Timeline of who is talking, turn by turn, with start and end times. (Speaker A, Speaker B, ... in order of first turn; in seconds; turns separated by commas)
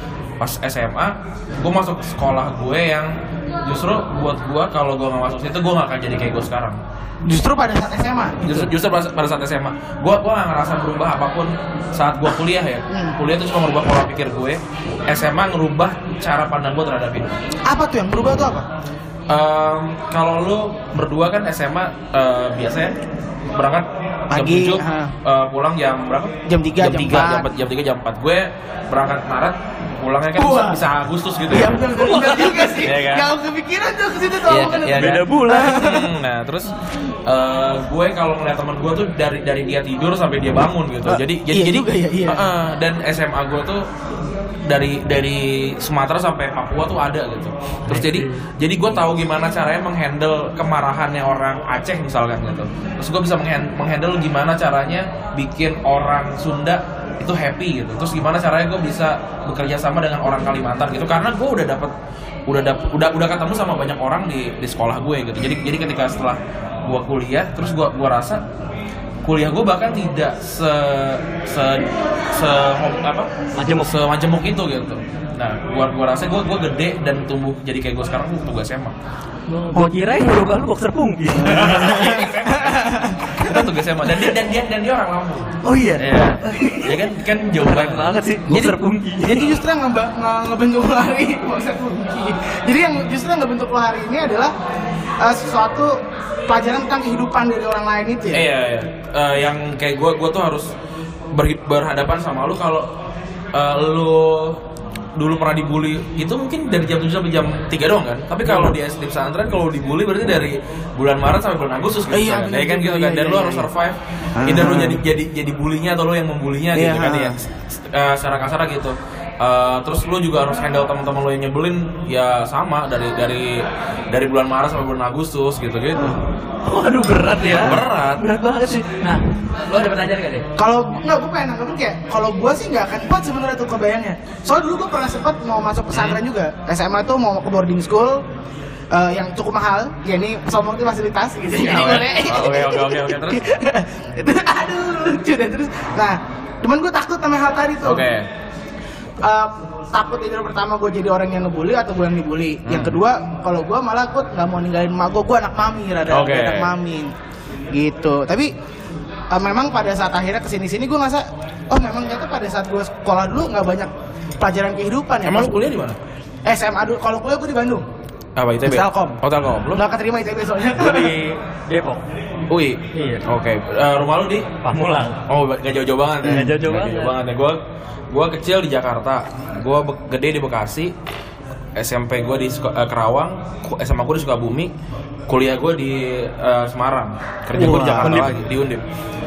Speaker A: 0.4-6.8, Speaker B: 7.2-8.5, Speaker A: 8.4-17.3, Speaker B: 12.9-13.2, Speaker B: 17.7-18.7, Speaker A: 19.3-23.0, Speaker A: 23.5-31.8, Speaker B: 24.3-25.1, Speaker B: 26.5-27.5, Speaker B: 30.4-30.8, Speaker B: 31.5-36.1, Speaker C: 31.9-32.9, Speaker A: 32.8-33.3, Speaker C: 34.5-35.9, Speaker A: 34.6-36.7, Speaker A: 37.2-43.9, Speaker B: 41.1-42.5, Speaker A: 44.7-61.9, Speaker C: 47.9-48.4, Speaker A: 62.5-68.4, Speaker A: 69.2-78.9, Speaker C: 73.5-74.0, Speaker C: 79.5-82.3, Speaker B: 79.7-80.0, Speaker A: 81.4-88.2, Speaker B: 81.5-83.6, Speaker C: 85.6-89.6, Speaker B: 88.5-94.5, Speaker B: 95.2-98.5, Speaker A: 98.3-100.7, Speaker A: 101.3-102.9, Speaker A: 103.5-104.6, Speaker A: 105.2-126.2, Speaker B: 112.1-113.7, Speaker B: 114.4-115.0, Speaker B: 116.7-117.4, Speaker C: 126.6-130.5, Speaker A: 127.4-128.2, Speaker B: 130.6-138.2, Speaker A: 135.9-136.2, Speaker B: 138.9-148.1, Speaker A: 141.6-143.4, Speaker A: 147.8-148.3, Speaker B: 149.2-157.1, Speaker A: 152.6-153.0, Speaker A: 156.1-156.7, Speaker B: 157.7-158.5, Speaker B: 159.3-165.6, Speaker A: 165.2-166.0, Speaker B: 166.4-167.8, Speaker A: 168.3-169.8, Speaker B: 168.6-171.1, Speaker C: 170.7-172.0, Speaker A: 172.5-174.5, Speaker C: 172.9-173.2, Speaker C: 174.6-175.2, Speaker A: 175.3-177.6, Speaker C: 176.2-177.2, Speaker B: 176.2-176.5, Speaker A: 178.1-180.9, Speaker A: 181.8-184.7, Speaker A: 185.3-188.8, Speaker B: 187.5-188.3, Speaker C: 187.6-188.4